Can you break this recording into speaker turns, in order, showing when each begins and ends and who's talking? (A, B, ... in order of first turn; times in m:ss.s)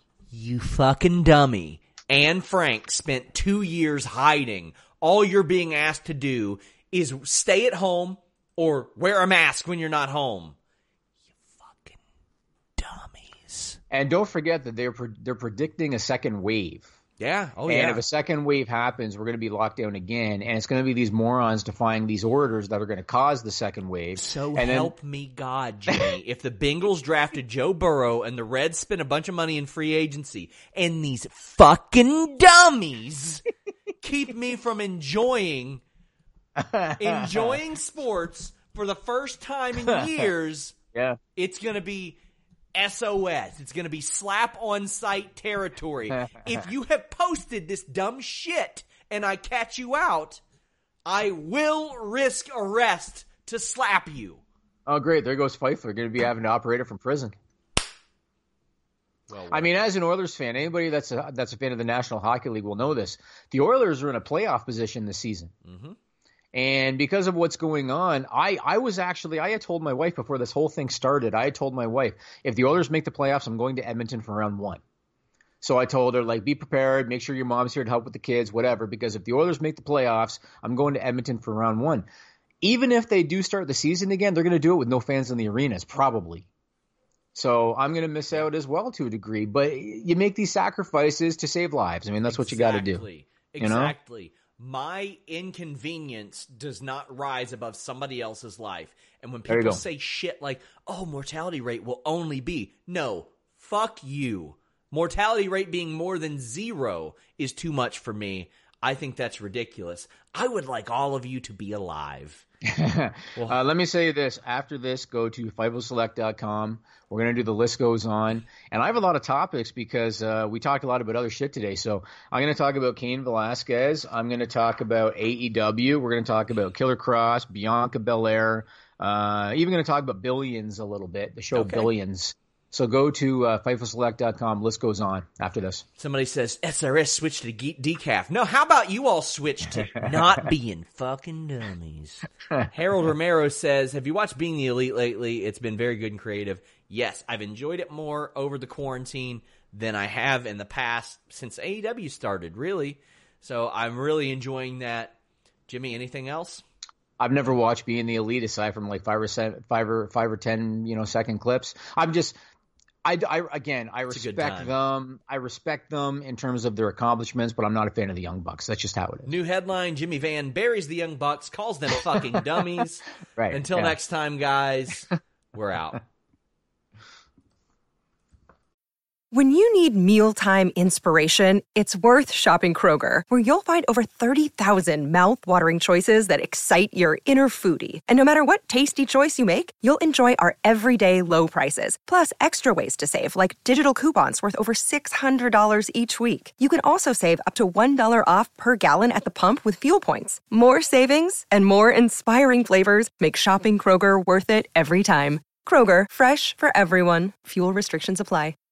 0:00.3-0:10.6 A
0:11.5-0:12.0 A
0:12.8-0:13.8 A
0:13.9-0:16.9 B
0:17.2-0:18.0 A
0:17.7-0:24.9 B
0:24.2-0:33.4 A
0:34.0-0:35.8 A
0:36.6-0:37.6 B
0:37.0-0:40.8 A
0:39.8-0:40.2 B
0:40.9-0:41.2 B
0:41.4-0:42.2 A
0:42.7-0:50.4 A
0:46.2-0:46.6 B
0:51.1-0:54.4 A
0:54.9-0:57.4 B
0:59.3-0:59.8 A
0:59.5-1:05.5 B
1:05.6-1:06.0 A
1:06.5-1:14.8 B
1:15.6-1:22.1 B
1:22.6-1:26.5 B
1:27.4-1:33.0 B
1:32.2-1:52.5 A
1:33.6-1:33.9 B
1:39.5-1:39.8 B
1:52.6-2:15.8 B
2:11.5-2:11.9 A
2:16.0-2:35.2 A
2:35.7-2:36.6 A
2:37.2-2:42.4 B
2:43.0-2:49.3 B
2:44.1-2:44.8 A
2:49.3-2:56.0 A
2:53.4-2:54.0 B
2:59.3-3:28.6 C